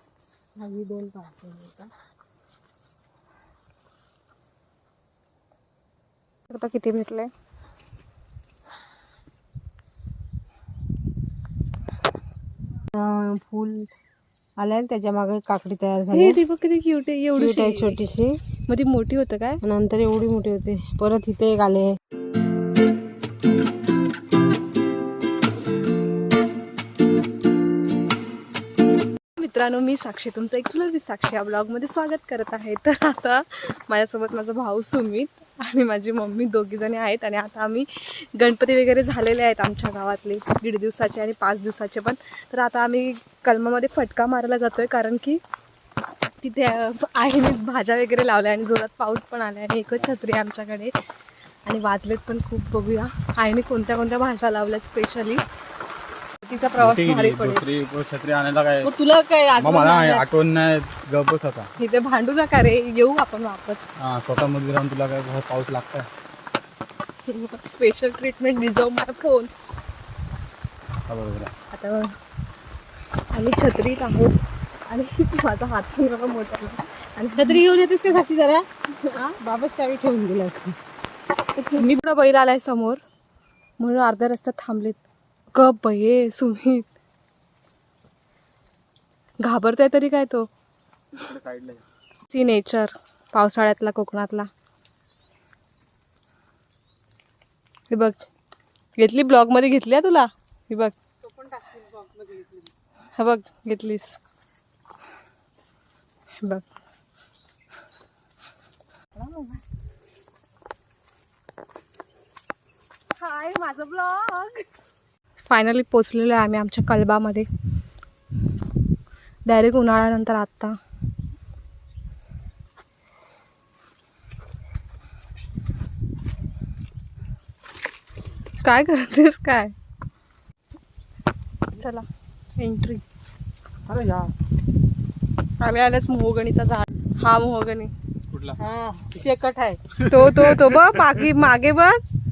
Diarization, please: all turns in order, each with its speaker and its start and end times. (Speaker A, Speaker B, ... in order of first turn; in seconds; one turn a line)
Speaker A: 0.6-1.9
Speaker B: 6.5-7.3
Speaker A: 12.9-13.9
Speaker A: 14.6-16.4
Speaker B: 16.1-18.0
Speaker A: 17.4-18.4
Speaker B: 18.7-19.6
Speaker A: 19.6-21.9
Speaker B: 29.4-45.4
Speaker B: 46.4-50.9
Speaker B: 51.6-55.4
Speaker B: 56.4-57.6
Speaker C: 56.8-58.9
Speaker A: 58.8-60.3
Speaker C: 59.5-61.7
Speaker B: 61.8-63.9
Speaker C: 64.0-66.1
Speaker B: 67.3-69.5
Speaker C: 71.1-71.5
Speaker B: 71.7-72.2
Speaker B: 73.3-77.6
Speaker A: 77.3-80.8
Speaker B: 81.6-83.0
Speaker B: 83.8-86.9
Speaker B: 89.4-90.5
Speaker C: 91.1-91.8
Speaker B: 92.3-94.5
Speaker B: 97.9-98.2
Speaker B: 99.0-100.9
Speaker A: 101.2-102.7
Speaker B: 103.2-104.2
Speaker B: 109.1-109.6
Speaker B: 113.2-114.6
Speaker B: 115.5-117.5
Speaker B: 119.5-120.8
Speaker B: 128.6-129.7
Speaker B: 131.7-133.0
Speaker C: 133.8-134.3
Speaker B: 135.6-137.9
Speaker C: 138.3-138.6
Speaker A: 138.6-140.1
Speaker B: 140.0-142.0